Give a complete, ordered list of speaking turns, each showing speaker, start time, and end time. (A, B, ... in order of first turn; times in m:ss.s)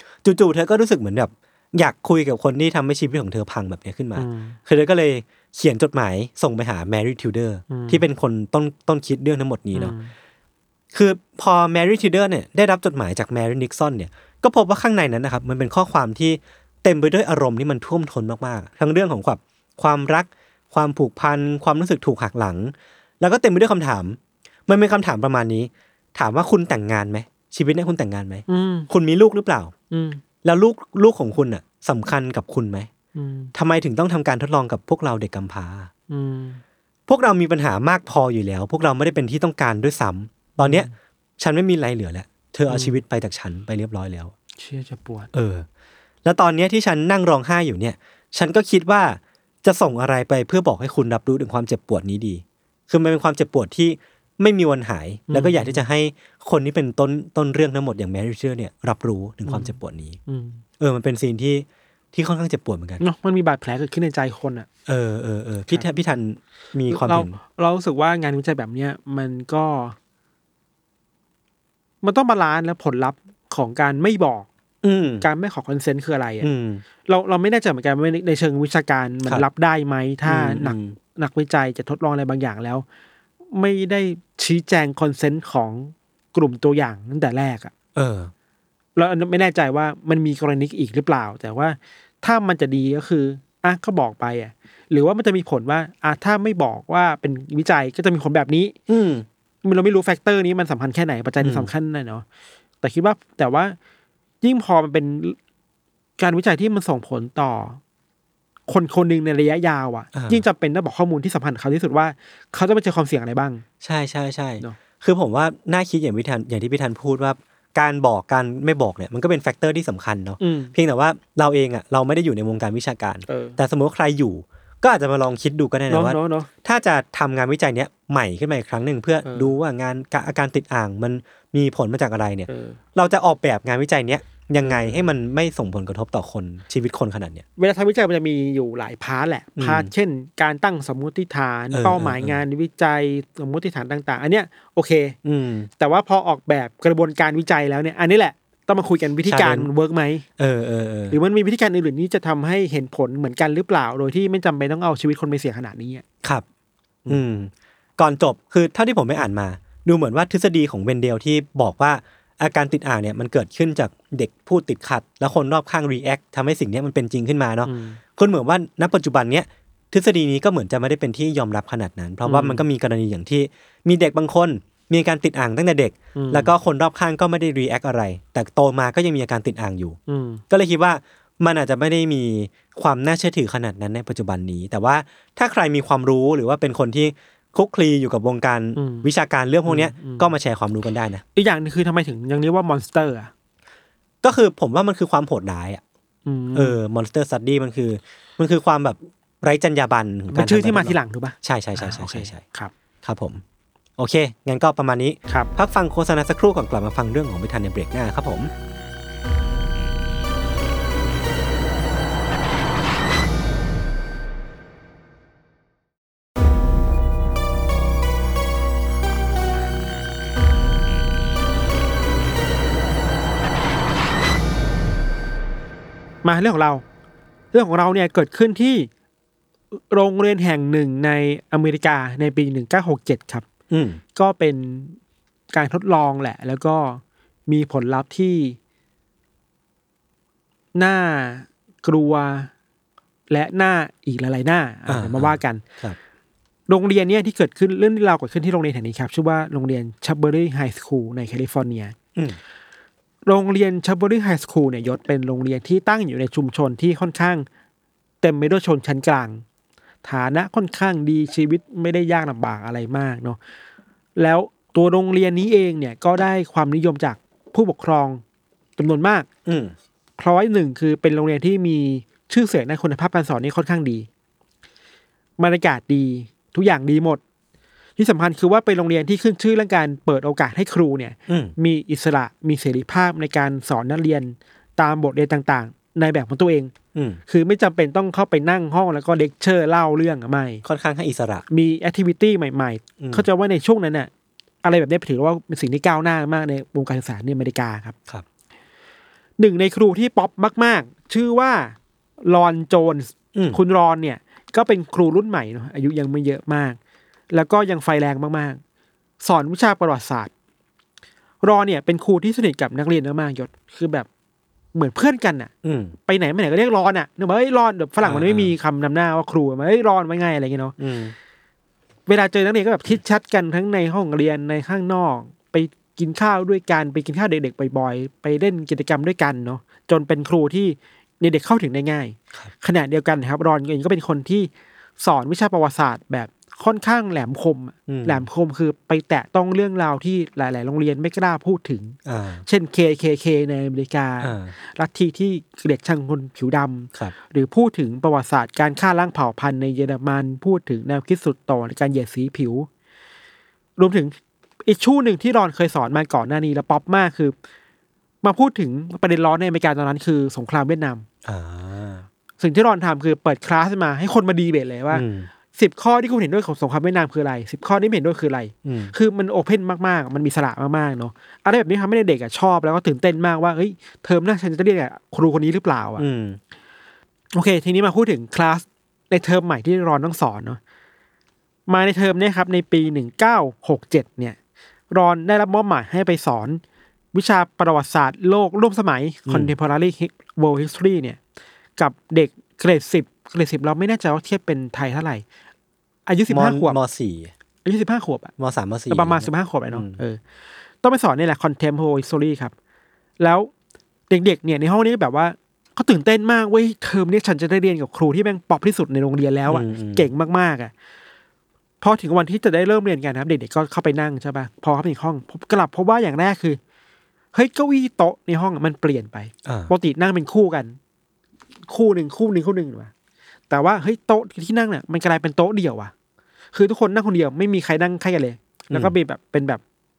0:00.2-0:09.9 A
0:04.2-0:04.6 B
0:07.7-0:08.0 B
0:09.7-0:10.1 B
0:10.9-0:29.7 A
0:28.5-0:28.9 B
0:29.9-0:30.2 B
0:30.4-0:32.9 A
0:33.1-0:33.5 B
0:33.5-0:35.9 A
0:36.1-0:36.6 B
0:37.1-0:44.3 A
0:40.6-0:40.9 B
0:42.7-0:43.0 B
0:44.6-0:45.3 B
0:45.3-0:45.6 A
0:46.2-1:00.2 A
0:55.3-0:55.8 B
0:59.4-1:00.6 B
1:00.8-1:03.0 A
1:03.0-1:04.7 B
1:04.8-1:07.4 A
1:06.9-1:10.0 B
1:12.0-1:14.5 B
1:14.8-1:15.2 A
1:15.2-1:16.5 B
1:16.4-1:16.8 A
1:17.0-1:22.8 B
1:20.2-1:21.0 A
1:23.5-1:27.7 B
1:27.9-1:28.3 A
1:29.0-1:38.8 B
1:38.9-1:39.2 A
1:39.6-1:42.2 B
1:41.4-1:41.7 A
1:42.8-1:43.8 B
1:44.4-1:45.4 B
1:46.2-1:47.8 B
1:48.7-1:53.6 B
1:50.1-1:50.4 A
1:53.8-2:17.4 A
2:00.4-2:00.7 B
2:03.3-2:03.6 B
2:05.9-2:06.5 B
2:09.2-2:09.5 B
2:12.5-2:12.8 B
2:14.6-2:15.0 B
2:17.6-2:25.2 B
2:19.6-2:19.9 A
2:21.7-2:22.4 A
2:25.2-2:25.7 A
2:25.8-2:30.2 B
2:29.2-2:29.7 A
2:30.4-2:31.2 A
2:31.1-2:36.0 B
2:37.0-3:00.0 A
2:47.6-2:48.0 B
2:52.2-2:52.6 B
2:56.1-2:56.5 B
3:00.1-3:00.4 B
3:00.5-3:11.2 A
3:08.8-3:09.1 B
3:09.6-3:10.3 B
3:11.3-3:13.3 B
3:14.2-3:15.8 A
3:16.2-3:16.8 B
3:16.5-3:22.4 A
3:20.3-3:22.7 B
3:23.0-3:23.4 A
3:24.0-3:28.5 A
3:46.2-3:46.8 B
3:47.5-3:48.9 B
3:49.7-3:53.4 B
3:53.7-3:54.0 A
3:54.1-3:55.0 B
3:55.5-3:58.6 B
4:00.7-4:02.5 B
4:03.3-4:05.6 B
4:04.9-4:06.0 A
4:06.7-4:12.0 B
4:13.2-4:17.4 B
4:18.2-4:19.4 B
4:20.0-4:23.4 B
4:24.2-4:28.2 B
4:28.8-4:29.3 B
4:29.4-4:29.7 A
4:30.2-4:34.1 B
4:35.4-4:37.2 B
4:38.0-4:46.7 B
4:41.3-4:41.5 A
4:46.9-4:47.2 A
4:47.3-4:50.6 B
4:50.6-4:51.4 A
4:51.5-4:54.1 B
4:53.0-4:53.3 A
4:54.6-4:57.9 B
4:59.4-5:06.8 B
5:07.3-5:08.6 B
5:09.2-5:10.3 B
5:11.4-5:14.1 B
5:14.7-5:15.5 B
5:15.6-5:15.9 A
5:16.0-5:20.8 B
5:18.0-5:18.5 A
5:20.8-5:21.1 A
5:22.1-5:52.7 B
5:37.9-5:38.3 A
5:42.0-5:42.4 A
5:44.2-5:44.5 A
5:53.8-5:57.3 B
5:58.2-6:01.0 B
6:01.2-6:02.1 A
6:02.4-6:16.0 B
6:04.9-6:05.3 A
6:08.6-6:08.9 A
6:16.0-6:16.4 A
6:17.3-6:20.6 B
6:21.7-6:24.4 B
6:24.9-6:26.6 B
6:27.1-6:31.2 B
6:29.3-6:29.5 A
6:31.8-6:35.2 B
6:36.1-6:36.8 B
6:36.3-6:37.3 A
6:37.6-6:38.3 B
6:38.4-6:40.0 A
6:38.9-6:40.2 B
6:40.8-6:42.5 B
6:43.2-6:43.5 B
6:44.1-6:50.7 B
6:49.5-6:50.1 A
6:51.8-6:56.6 B
6:57.3-7:00.8 B
6:59.4-6:59.7 A
7:01.7-7:02.9 B
7:03.5-7:05.9 B
7:06.5-7:09.6 B
7:08.7-7:08.9 A